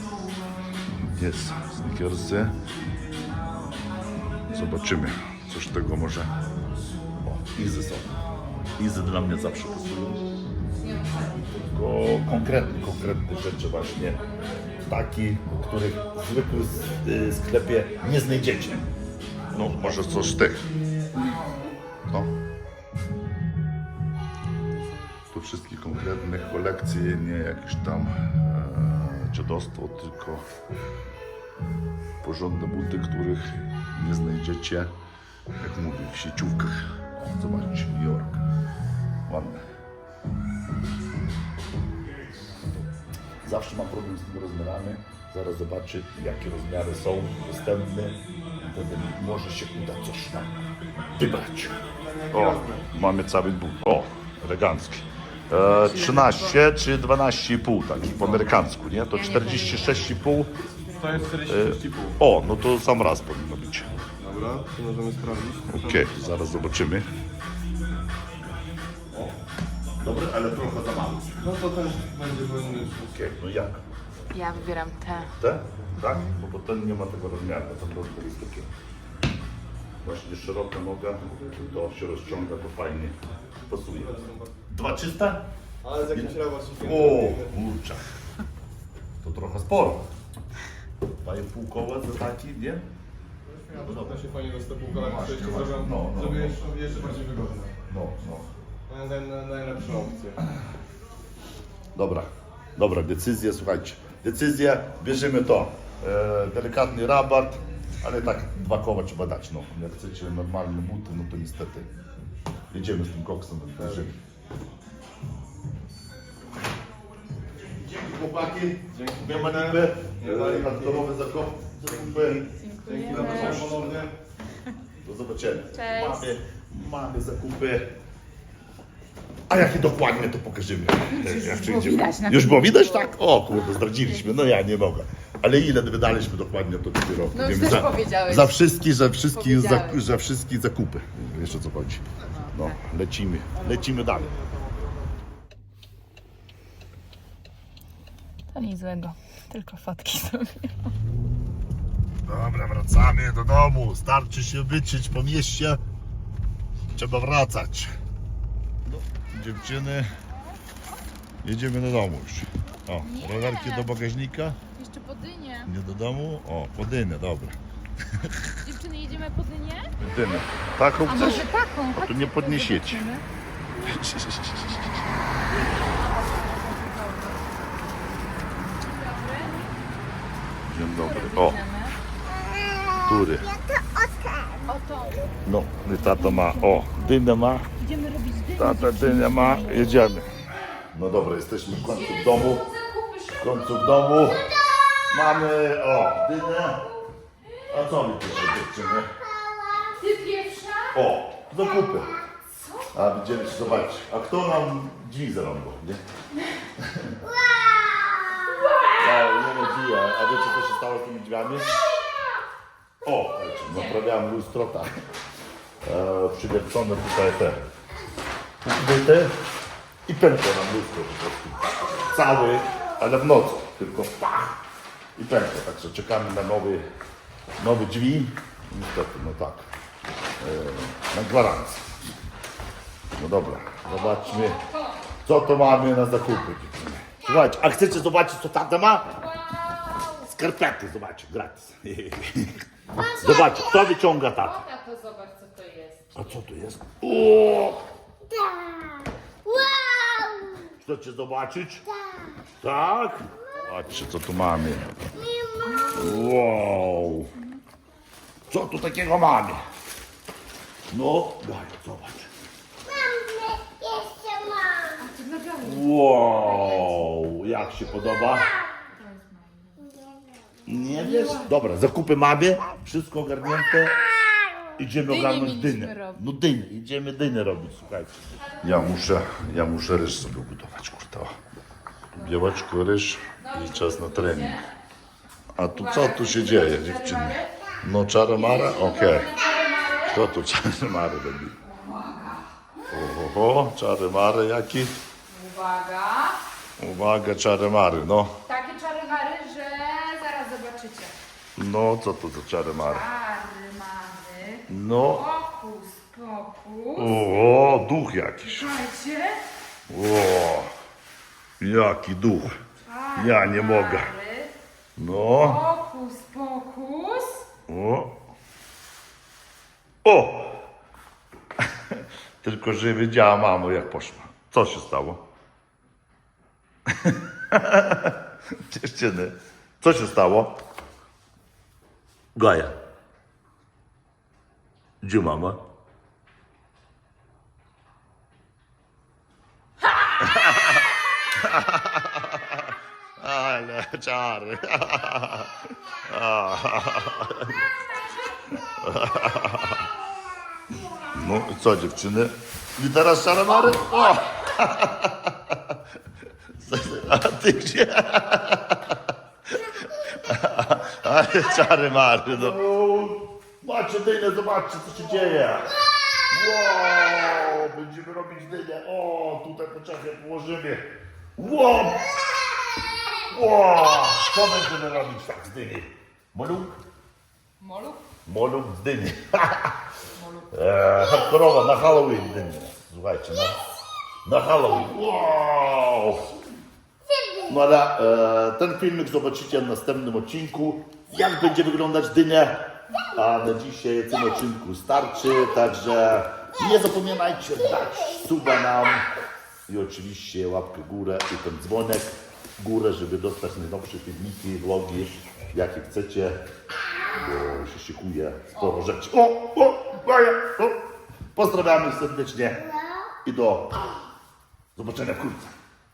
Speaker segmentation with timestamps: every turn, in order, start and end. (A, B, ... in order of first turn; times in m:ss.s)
0:01.0-0:02.6 A
0:04.5-0:06.3 A
0:07.2-0:08.1 A
0:08.8-0:10.3 A
0:10.8-0:11.2 B
0:11.3-0:14.2 A
0:14.8-0:18.9 A
0:19.5-0:20.7 A
0:21.2-0:21.5 B
0:24.7-0:25.1 B
0:25.3-0:30.4 A
0:32.2-0:34.9 A
0:35.6-0:38.4 A
0:39.3-0:39.6 A
0:43.4-0:50.6 A
0:51.2-0:51.7 A
0:51.9-0:52.9 C
0:52.3-1:00.6 A
0:55.6-0:56.6 B
0:59.1-1:00.1 B
1:00.8-1:01.1 B
1:01.0-1:02.2 C
1:01.2-1:03.9 A
1:04.2-1:06.5 C
1:05.7-1:07.1 A
1:10.0-1:11.4 A
1:11.4-1:13.2 C
1:12.9-1:13.8 A
1:14.3-1:15.3 B
1:15.4-1:18.7 A
1:20.0-1:23.2 A
1:23.7-1:24.2 A
1:23.9-1:24.5 C
1:24.7-1:25.4 A
1:25.8-1:27.5 C
1:26.1-1:28.0 A
1:29.2-1:30.0 A
1:31.1-1:32.8 A
1:33.5-1:37.8 C
1:33.7-1:34.3 A
1:34.8-1:37.2 A
1:37.9-1:38.5 A
1:38.9-1:40.4 C
1:41.9-1:51.9 A
1:52.7-1:54.2 A
1:57.6-2:02.5 A
1:58.9-2:01.1 C
2:02.1-2:04.1 C
2:02.4-2:03.8 B
2:03.1-2:04.1 A
2:05.0-2:07.9 A
2:05.7-2:06.3 B
2:09.5-2:24.4 A
2:11.1-2:13.2 B
2:17.3-2:18.6 B
2:19.3-2:20.0 B
2:22.3-2:22.8 B
2:23.6-2:25.0 C
2:28.5-2:30.9 B
2:32.2-2:35.8 A
2:36.9-2:37.9 A
2:38.8-2:40.1 A
2:41.4-2:44.6 A
2:43.0-2:43.9 B
2:44.7-2:45.7 B
2:45.6-2:47.6 A
2:48.1-2:48.5 A
2:48.6-2:49.9 B
2:50.0-2:53.1 A
2:51.0-2:53.2 B
2:53.8-2:54.9 A
2:55.5-2:57.8 B
2:58.7-2:59.8 B
3:00.6-3:01.6 A
3:00.9-3:02.0 B
3:02.9-3:03.5 A
3:04.5-3:05.4 B
3:05.4-3:07.7 A
3:06.0-3:06.8 B
3:07.8-3:10.1 B
3:08.6-3:12.6 A
3:11.8-3:13.8 B
3:13.4-3:14.5 A
3:15.1-3:16.8 A
3:16.8-3:17.1 B
3:17.7-3:19.1 A
3:19.8-3:21.0 B
3:20.9-3:22.2 A
3:22.3-3:23.1 B
3:22.9-3:26.0 A
3:26.8-3:27.2 A
3:28.5-3:29.0 B
3:29.0-3:31.8 A
3:33.0-3:34.9 A
3:35.8-3:37.6 A
3:38.6-3:39.4 A
3:40.1-3:44.6 A
3:45.2-3:46.8 A
3:47.6-3:49.7 A
3:50.4-3:52.0 A
3:53.2-3:54.6 A
3:53.9-3:55.0 B
3:55.2-3:59.2 A
3:57.2-3:57.5 B
3:59.2-4:00.3 B
4:00.2-4:04.6 A
4:03.0-4:06.3 B
4:06.1-4:07.8 A
4:09.7-4:10.4 B
4:10.8-4:11.8 A
4:12.6-4:14.9 A
4:15.6-4:16.5 B
4:15.9-4:17.3 A
4:18.5-4:19.6 A
4:20.9-4:22.3 A
4:25.0-4:27.1 B
4:25.6-4:28.5 A
4:28.8-4:29.9 B
4:30.6-4:34.0 A
4:31.0-4:31.5 B
4:34.7-4:41.4 A
4:35.0-4:36.2 B
4:38.4-4:39.0 B
4:42.1-4:44.6 A
4:43.4-4:44.7 B
4:45.5-4:49.3 A
4:45.7-4:47.5 B
4:48.3-4:50.2 B
4:50.0-4:51.6 A
4:51.6-4:52.9 B
4:52.9-4:54.9 A
4:55.3-4:56.4 B
4:56.8-4:58.4 A
4:58.4-5:01.1 B
5:01.6-5:03.0 A
5:02.8-5:07.4 B
5:04.7-5:05.3 A
5:06.9-5:08.7 A
5:08.4-5:09.5 B
5:09.9-5:10.7 A
5:11.6-5:12.6 A
5:12.8-5:14.5 B
5:13.2-5:14.1 A
5:15.0-5:15.6 A
5:15.4-5:17.4 B
5:17.7-5:18.1 A
5:20.0-5:20.6 A
5:21.6-5:25.2 A
5:26.9-5:30.6 A
5:32.3-5:32.8 A
5:35.0-5:35.6 A
5:40.2-5:47.6 A
5:48.5-5:49.9 A
5:51.1-5:55.8 A
5:56.6-6:10.8 A
6:11.4-6:12.3 A
6:13.3-6:16.8 A
6:17.6-6:18.0 B
6:18.2-6:19.8 A
6:20.2-6:20.5 B
6:20.5-6:23.6 A
6:24.2-6:26.3 A
6:27.5-6:39.1 A
6:39.7-6:46.4 A
6:47.0-6:50.8 A
6:51.3-6:52.7 A
6:53.2-6:54.0 A
6:54.8-6:55.5 A